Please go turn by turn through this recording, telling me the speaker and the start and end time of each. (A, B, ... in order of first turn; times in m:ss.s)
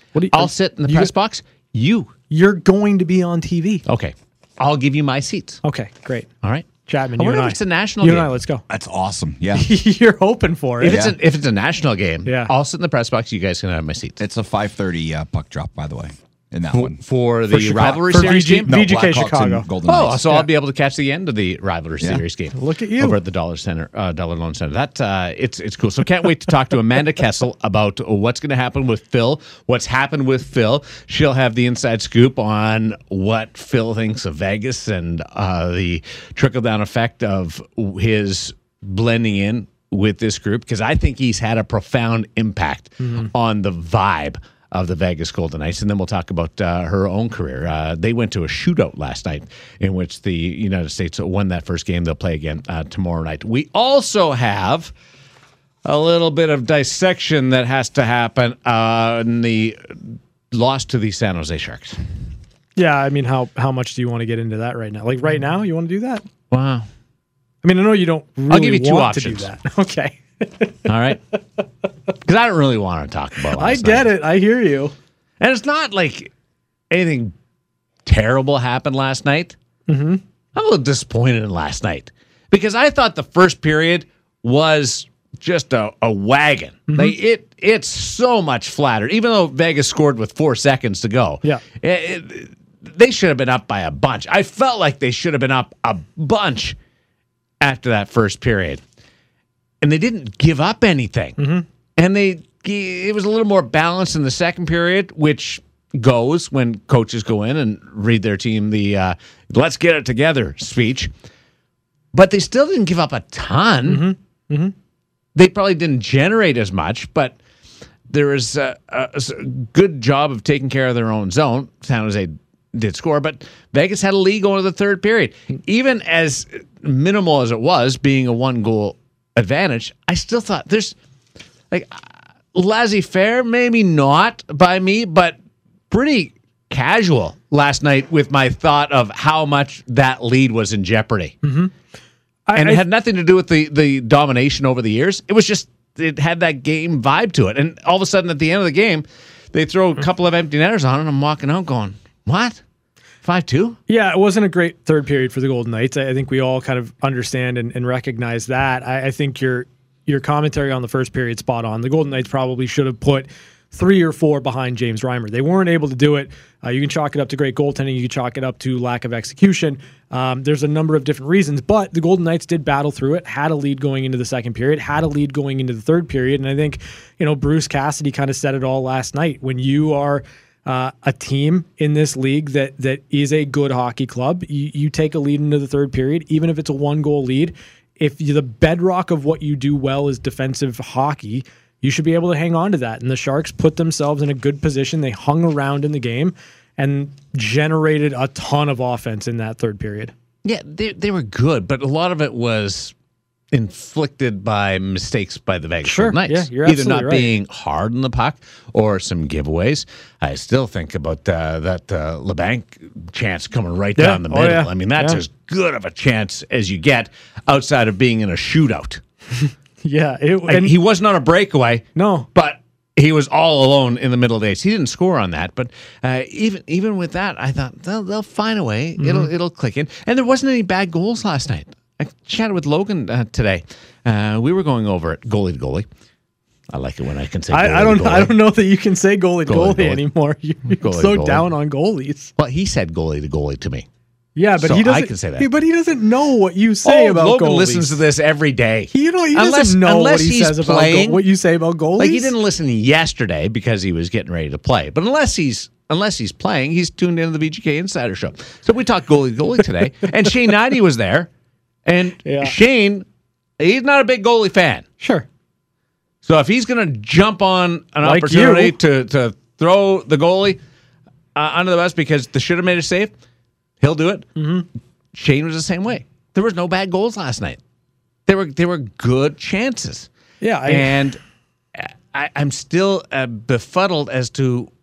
0:00.1-0:01.1 A
0:00.3-0:02.1 B
0:02.3-0:03.8 A
0:03.8-0:05.6 B
0:05.6-0:06.3 A
0:06.4-0:08.3 B
0:06.8-0:08.6 A
0:08.7-0:09.7 C
0:09.5-0:11.1 A
0:10.8-0:14.2 B
0:10.8-0:11.2 C
0:12.2-0:12.5 A
0:14.2-0:17.0 C
0:16.7-0:18.7 B
0:17.5-0:20.3 C
0:17.6-0:19.7 A
0:19.8-0:54.9 B
0:22.5-0:23.2 A
0:43.0-0:43.3 A
0:55.8-1:02.0 B
1:02.8-1:06.2 A
1:06.5-1:06.9 B
1:07.6-1:10.8 A
1:08.5-1:09.5 B
1:10.8-1:11.2 B
1:12.2-1:14.1 B
1:13.5-1:14.9 A
1:15.4-1:16.3 B
1:16.9-1:17.3 B
1:18.0-1:19.6 B
1:19.9-1:20.2 A
1:20.5-1:36.8 B
1:26.9-1:27.2 A
1:37.6-1:38.8 B
1:39.8-1:41.4 B
1:41.4-1:41.6 A
1:42.0-1:51.1 B
1:52.1-1:54.1 B
1:53.8-1:54.7 A
1:55.3-1:57.4 B
1:58.1-2:10.9 B
2:11.7-2:15.4 B
2:15.9-2:21.4 B
2:21.4-2:21.7 A
2:22.5-2:22.8 A
2:22.6-2:32.6 B
2:33.2-2:33.8 B
2:33.9-3:20.1 A
3:20.4-3:22.9 B
3:23.5-3:39.0 B
3:25.8-3:27.4 A
3:34.0-3:35.2 A
3:39.8-3:40.7 A
3:40.5-3:55.9 B
3:42.0-3:42.3 A
3:49.0-3:49.3 A
3:56.7-3:58.4 B
3:57.5-4:02.3 A
3:59.5-4:00.0 B
4:00.8-4:01.5 B
4:02.4-4:03.9 B
4:04.4-4:07.9 A
4:04.6-4:05.5 B
4:06.8-4:11.2 B
4:08.9-4:12.3 A
4:12.0-4:21.3 B
4:21.8-4:23.0 B
4:22.2-4:22.6 A
4:23.6-4:24.8 B
4:25.0-4:25.2 A
4:26.2-4:30.6 B
4:28.0-4:28.8 A
4:31.3-4:33.1 B
4:33.8-4:34.4 B
4:34.4-4:34.6 A
4:35.1-4:37.6 B
4:38.3-4:40.1 B
4:40.4-4:41.0 A
4:40.6-4:41.2 B
4:41.8-4:44.7 B